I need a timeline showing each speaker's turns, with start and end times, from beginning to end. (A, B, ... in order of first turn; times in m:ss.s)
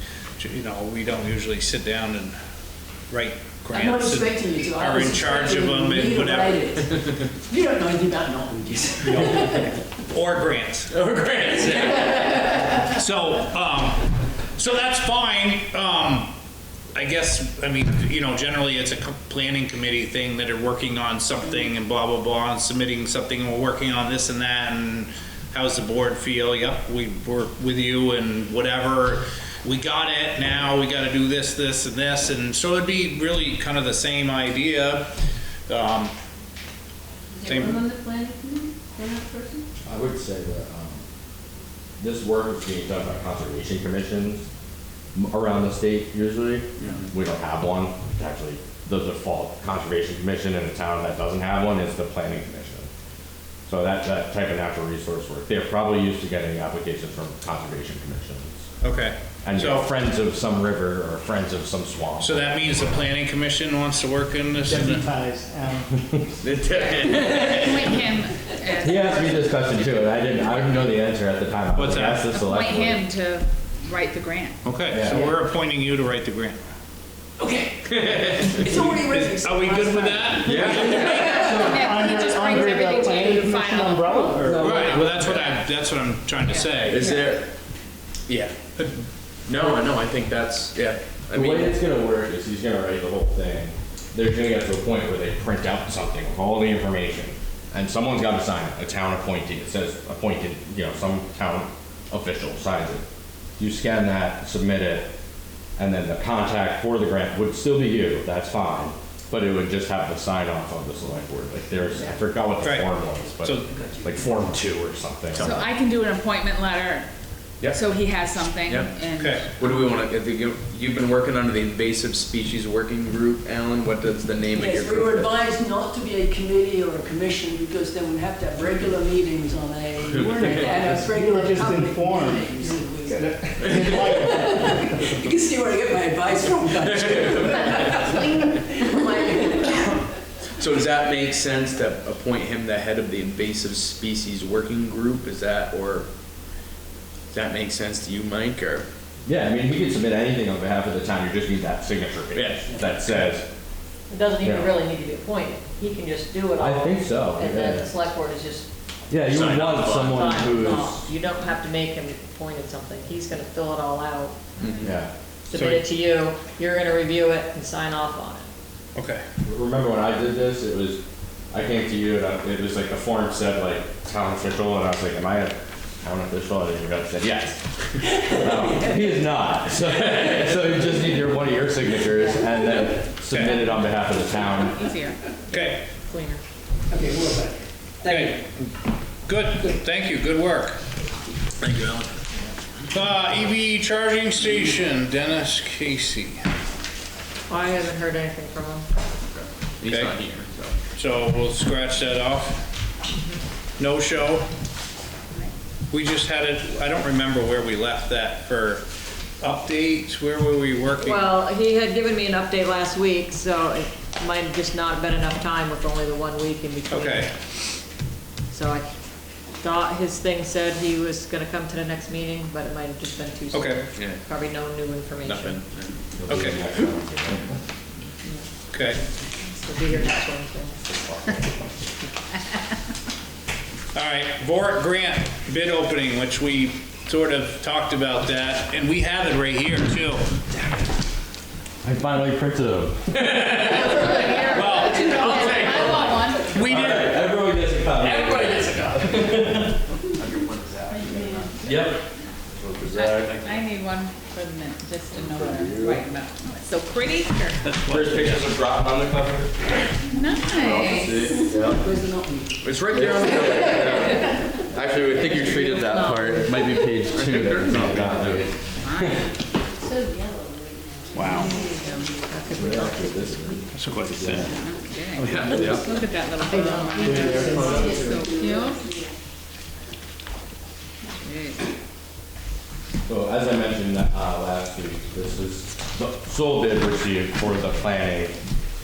0:00.4-0:02.3 A
0:03.1-0:06.7 A
0:03.7-0:09.8 B
0:09.0-0:11.0 A
0:10.9-0:12.0 C
0:11.8-0:16.3 A
0:16.9-0:35.1 A
0:35.7-0:36.1 A
0:37.4-0:37.9 A
0:37.4-0:39.6 D
0:39.8-0:41.0 E
0:42.0-0:44.4 E
0:45.1-0:52.9 E
0:46.8-0:47.1 C
0:53.7-0:58.7 E
0:58.8-0:59.9 A
0:59.4-1:02.8 E
1:02.2-1:05.1 A
1:04.6-1:05.9 F
1:06.4-1:08.0 C
1:06.7-1:10.1 G
1:08.8-1:13.0 E
1:11.7-1:12.3 A
1:12.2-1:14.6 G
1:14.6-1:16.6 A
1:14.9-1:15.4 E
1:17.4-1:21.7 B
1:18.0-1:18.6 C
1:18.6-1:21.6 A
1:20.4-1:21.3 C
1:20.5-1:25.5 F
1:21.5-1:24.3 G
1:22.6-1:25.5 H
1:24.5-1:25.0 E
1:24.5-1:27.1 A
1:26.4-1:27.4 H
1:26.9-1:27.5 C
1:28.3-1:28.9 C
1:29.5-1:31.8 C
1:31.3-1:43.0 E
1:43.6-1:45.1 E
1:45.8-1:55.7 E
1:52.6-1:52.9 A
1:53.8-1:54.0 B
1:55.3-1:57.1 G
1:57.6-1:57.8 C
1:57.6-1:59.9 G
1:58.6-1:58.9 C
1:59.1-1:59.5 A
1:59.6-2:05.4 C
2:04.5-2:20.1 B
2:10.1-2:10.7 C
2:10.1-2:15.1 F
2:13.6-2:14.0 C
2:16.8-2:18.0 C
2:20.6-2:26.1 C
2:27.3-2:28.8 C
2:29.2-2:33.5 E
2:32.3-2:32.8 C
2:34.1-2:38.7 H
2:34.4-2:34.7 E
2:36.6-2:37.9 E
2:39.1-2:41.0 E
2:39.3-2:40.6 C
2:39.9-2:44.4 H
2:44.6-2:44.9 C
2:44.8-2:45.1 E
2:45.5-2:48.5 H
2:45.5-2:45.8 A
2:48.9-2:49.2 A
2:49.4-2:51.0 E
2:51.5-2:57.6 E
2:58.0-2:59.3 B
2:58.2-3:04.8 E
2:59.8-3:01.0 B
3:02.2-3:02.8 B
3:03.3-3:03.8 A
3:04.5-3:05.2 G
3:05.5-3:05.8 A
3:05.6-3:06.4 H
3:06.9-3:08.4 B
3:08.0-3:08.7 A
3:09.2-3:10.8 A
3:11.6-3:12.3 C
3:12.9-3:16.4 A
3:17.5-3:18.8 H
3:19.3-3:20.7 C
3:19.8-3:20.2 A
3:20.9-3:22.6 A
3:23.8-3:24.4 A
3:25.9-3:28.8 A
3:29.4-3:31.3 A
3:31.0-3:37.3 H
3:36.9-3:37.3 A
3:38.5-3:38.9 H
3:39.6-3:45.6 H
3:43.5-3:43.8 A
3:43.9-3:44.2 C
3:45.2-3:46.1 C
3:46.1-3:47.6 E
3:46.3-3:46.6 A
3:48.7-3:49.0 A
3:49.4-3:50.8 H
3:50.9-3:51.4 E
3:53.9-4:00.2 A
4:01.8-4:03.8 E
4:03.3-4:05.9 C
4:03.7-4:05.9 H
4:04.1-4:05.7 A
4:04.9-4:06.5 G
4:06.4-4:07.2 A
4:06.5-4:09.8 E
4:08.0-4:09.2 C
4:10.0-4:11.6 C
4:10.9-4:11.4 D
4:11.2-4:12.0 G
4:11.6-4:12.0 E
4:12.5-4:13.2 E
4:12.8-4:17.7 G
4:13.1-4:13.6 C
4:15.3-4:15.9 C
4:15.6-4:15.8 E
4:17.8-4:19.7 E
4:17.9-4:18.2 C
4:20.1-4:21.3 G
4:20.5-4:21.8 E
4:20.9-4:23.3 B
4:22.6-4:29.3 E
4:23.3-4:23.8 C
4:25.2-4:26.8 H
4:27.2-4:28.4 C
4:28.8-4:29.2 G
4:29.8-4:32.6 D
4:31.1-4:31.5 A
4:31.2-4:33.3 H
4:31.3-4:32.2 G
4:32.5-4:34.6 E
4:33.7-4:34.5 A
4:34.4-4:39.0 G
4:35.1-4:35.9 C
4:36.5-4:38.1 H
4:36.6-4:39.0 D
4:37.0-4:38.2 F
4:41.0-4:41.7 G
4:43.0-4:48.4 E